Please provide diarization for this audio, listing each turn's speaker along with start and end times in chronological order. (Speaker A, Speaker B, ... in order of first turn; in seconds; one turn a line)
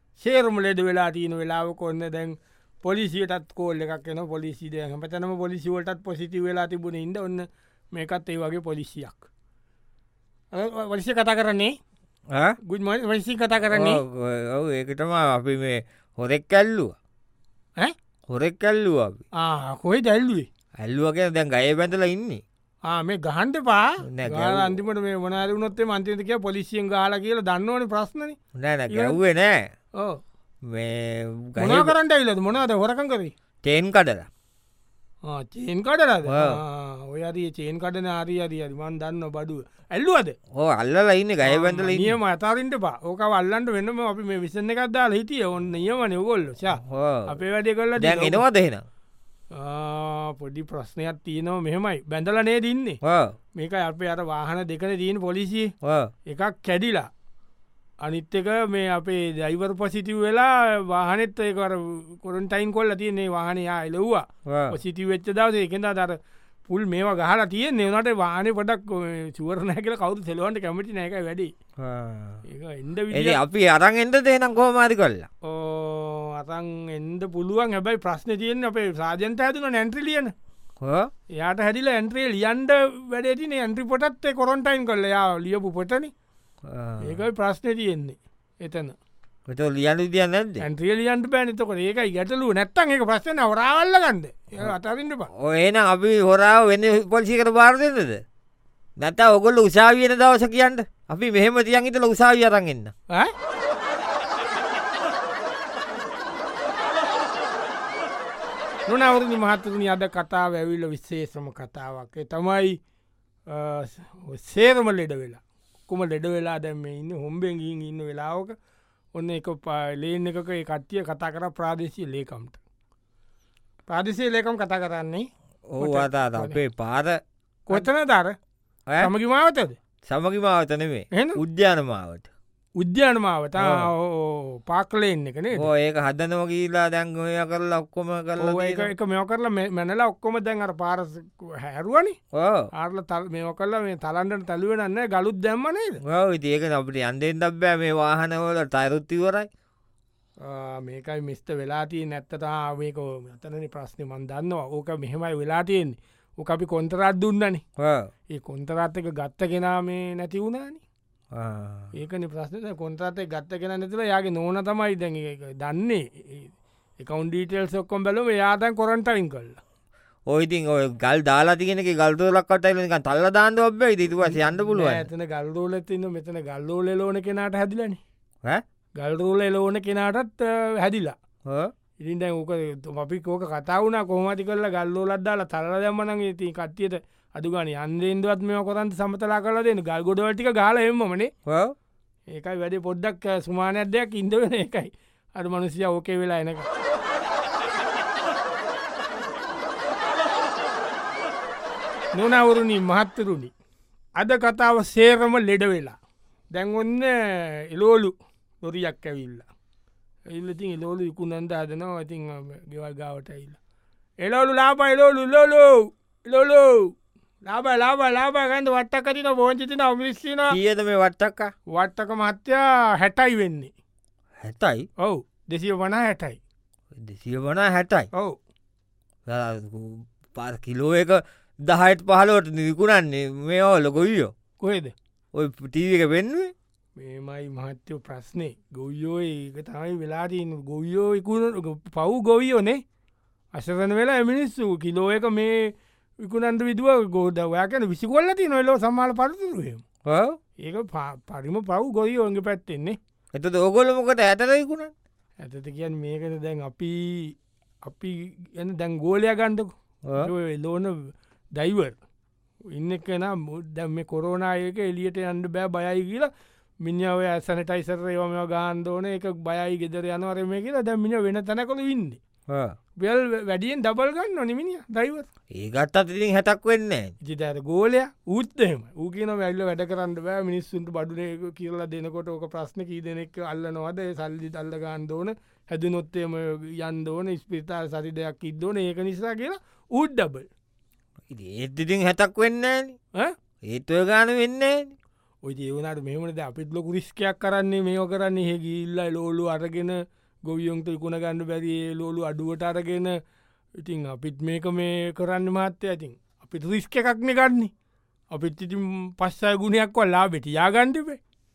Speaker A: 0.2-9.3
Speaker A: 10.5-11.8
Speaker B: 12.3-12.6
Speaker A: 12.6-14.0
Speaker B: 13.7-16.9
Speaker B: 18.3-19.2
Speaker A: 19.4-20.5
Speaker B: 20.8-22.4
Speaker A: 22.8-28.4
Speaker B: 24.1-24.7
Speaker B: 28.6-29.6
Speaker A: 28.9-29.2
Speaker B: 30.7-31.9
Speaker A: 31.6-33.3
Speaker B: 33.6-34.3
Speaker A: 35.2-40.4
Speaker B: 36.3-36.6
Speaker B: 40.5-42.2
Speaker A: 41.4-48.4
Speaker B: 46.8-47.3
Speaker B: 48.0-48.9
Speaker A: 49.5-53.0
Speaker B: 53.0-53.3
Speaker A: 53.5-55.7
Speaker B: 55.8-56.1
Speaker A: 56.2-57.1
Speaker A: 58.0-71.5
Speaker B: 64.5-64.8
Speaker B: 71.8-72.4
Speaker A: 72.5-73.4
Speaker B: 73.1-75.3
Speaker A: 75.4-80.3
Speaker B: 80.8-81.1
Speaker A: 81.3-86.1
Speaker B: 86.7-87.2
Speaker A: 87.0-89.0
Speaker B: 89.5-90.7
Speaker A: 90.6-95.3
Speaker B: 95.3-98.2
Speaker B: 99.0-102.9
Speaker A: 108.9-112.8
Speaker A: 113.5-118.5
Speaker A: 119.1-122.6
Speaker A: 123.9-125.3
Speaker B: 125.7-127.9
Speaker A: 125.8-126.6
Speaker A: 127.7-128.3
Speaker A: 129.0-129.8
Speaker B: 130.1-132.3
Speaker A: 131.1-131.4
Speaker A: 132.8-135.7
Speaker B: 133.6-133.9
Speaker B: 135.6-138.9
Speaker A: 138.4-142.2
Speaker B: 142.3-142.7
Speaker A: 142.7-146.0
Speaker B: 146.0-149.5
Speaker A: 150.4-157.6
Speaker B: 157.8-158.1
Speaker A: 158.3-160.8
Speaker B: 161.3-161.9
Speaker A: 161.9-169.6
Speaker B: 170.3-175.1
Speaker A: 174.2-178.0
Speaker A: 178.9-181.2
Speaker B: 181.4-181.7
Speaker A: 182.0-191.3
Speaker B: 191.4-191.7
Speaker A: 192.3-196.7
Speaker A: 202.1-203.5
Speaker A: 204.2-206.0
Speaker A: 206.5-209.5
Speaker A: 210.3-213.6
Speaker A: 214.2-216.9
Speaker A: 217.4-220.6
Speaker B: 220.5-221.5
Speaker A: 221.7-223.7
Speaker B: 224.4-224.9
Speaker A: 225.0-226.4
Speaker B: 226.9-228.1
Speaker B: 229.2-234.3
Speaker A: 234.6-234.9
Speaker B: 235.3-236.5
Speaker A: 236.9-242.8
Speaker A: 243.5-249.8
Speaker B: 250.1-250.4
Speaker A: 250.6-253.0
Speaker B: 253.3-254.9
Speaker A: 255.4-261.9
Speaker B: 260.1-260.3
Speaker A: 262.7-266.3
Speaker A: 266.8-272.2
Speaker B: 272.5-272.8
Speaker A: 273.0-275.3
Speaker B: 275.5-277.1
Speaker A: 277.2-290.5
Speaker B: 291.3-293.0
Speaker B: 293.6-294.9
Speaker A: 295.4-303.1
Speaker A: 303.8-307.7
Speaker A: 308.3-311.2